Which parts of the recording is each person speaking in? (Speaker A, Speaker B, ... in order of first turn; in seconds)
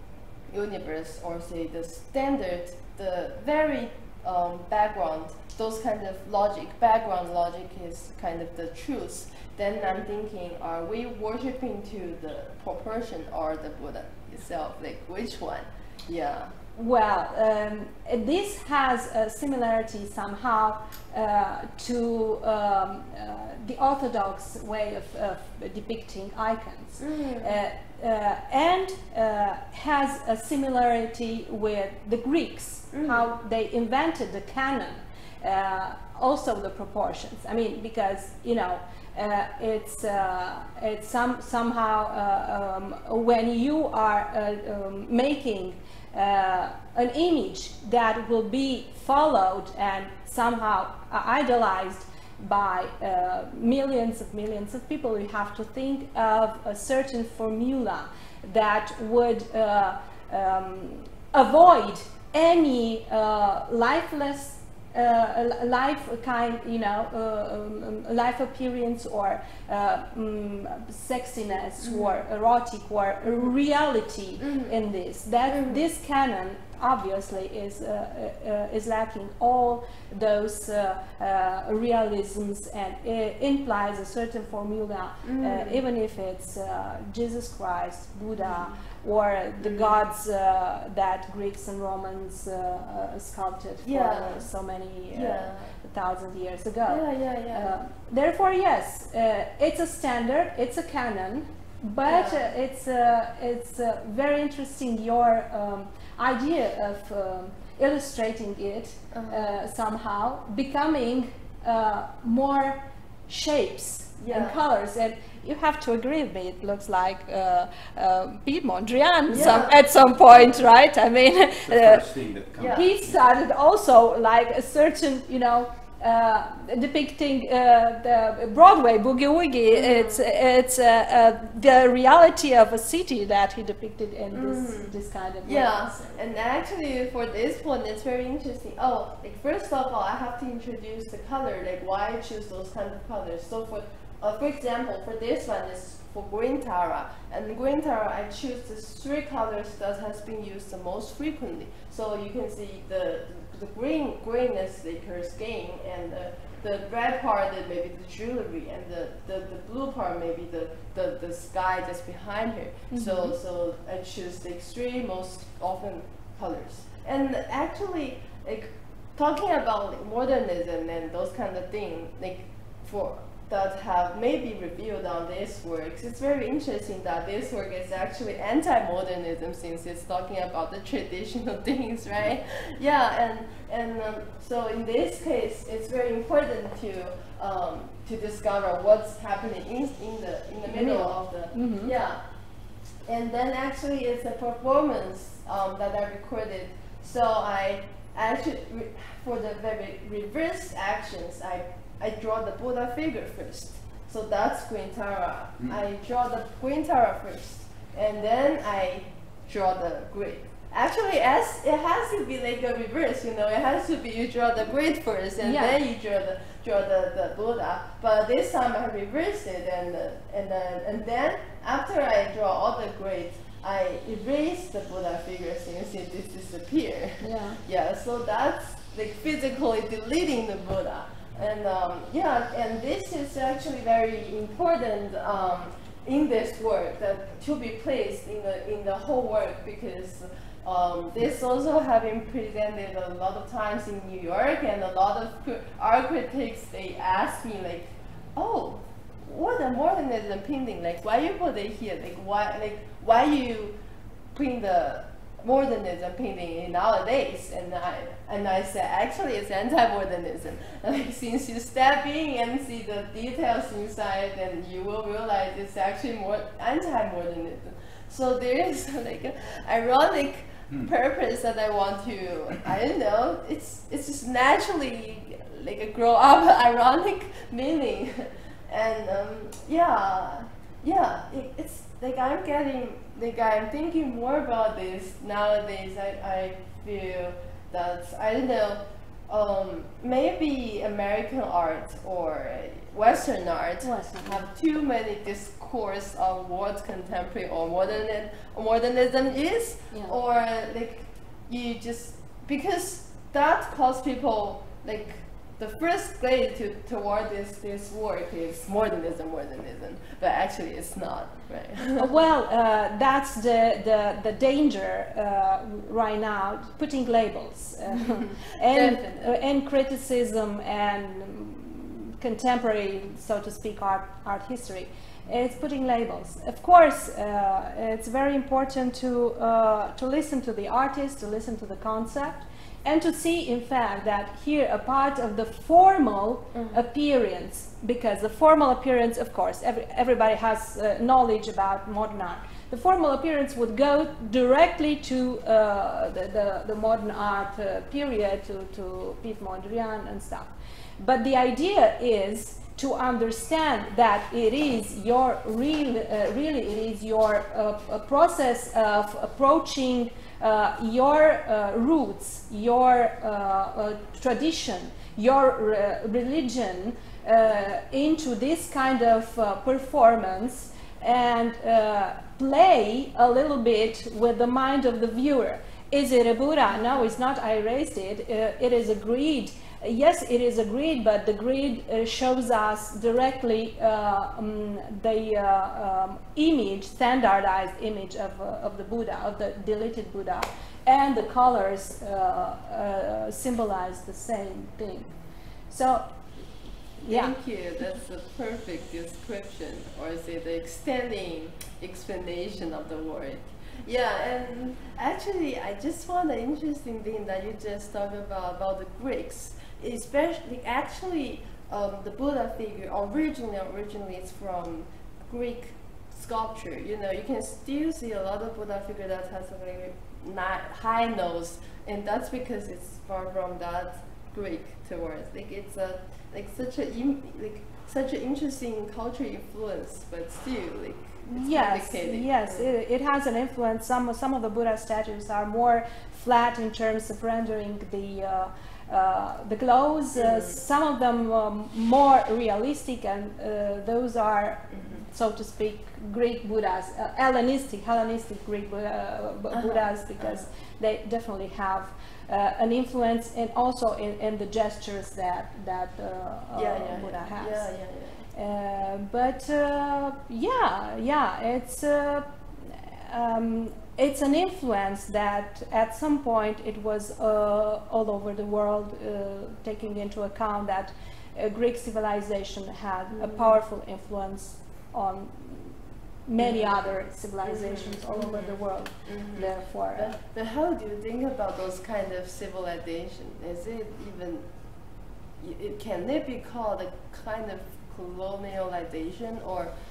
Speaker A: 0.5-16.5, 27.0-27.5, 32.9-33.2, 71.8-72.2, 74.4-74.7, 75.5-75.8, 85.2-85.8, 88.4-88.8, 89.6-90.0, 93.8-94.5, 95.1-95.7, 96.9-97.7, 102.1-102.5, 109.1-109.6, 114.2-114.6, 119.3-119.7, 122.6-122.9, 129.7-130.3, 134.3-134.9, 135.4-192.2, 193.1-253.8, 254.3-312.1, 317.9-319.4, 336.5-336.8, 397.0-432.7, 440.1-440.6, 444.7-445.0, 449.5-450.4, 456.5-458.3, 473.1-473.6, 476.4-476.8, 477.4-484.5, 485.4-489.7
Speaker B: 16.7-122.0, 122.7-136.2, 162.9-163.4, 190.7-191.9, 215.4-215.8, 227.2-227.6, 293.8-294.4, 311.9-395.1, 395.7-396.1, 397.0-397.4, 431.2-457.7, 458.3-480.1
Speaker C: 119.3-120.7, 121.7-123.2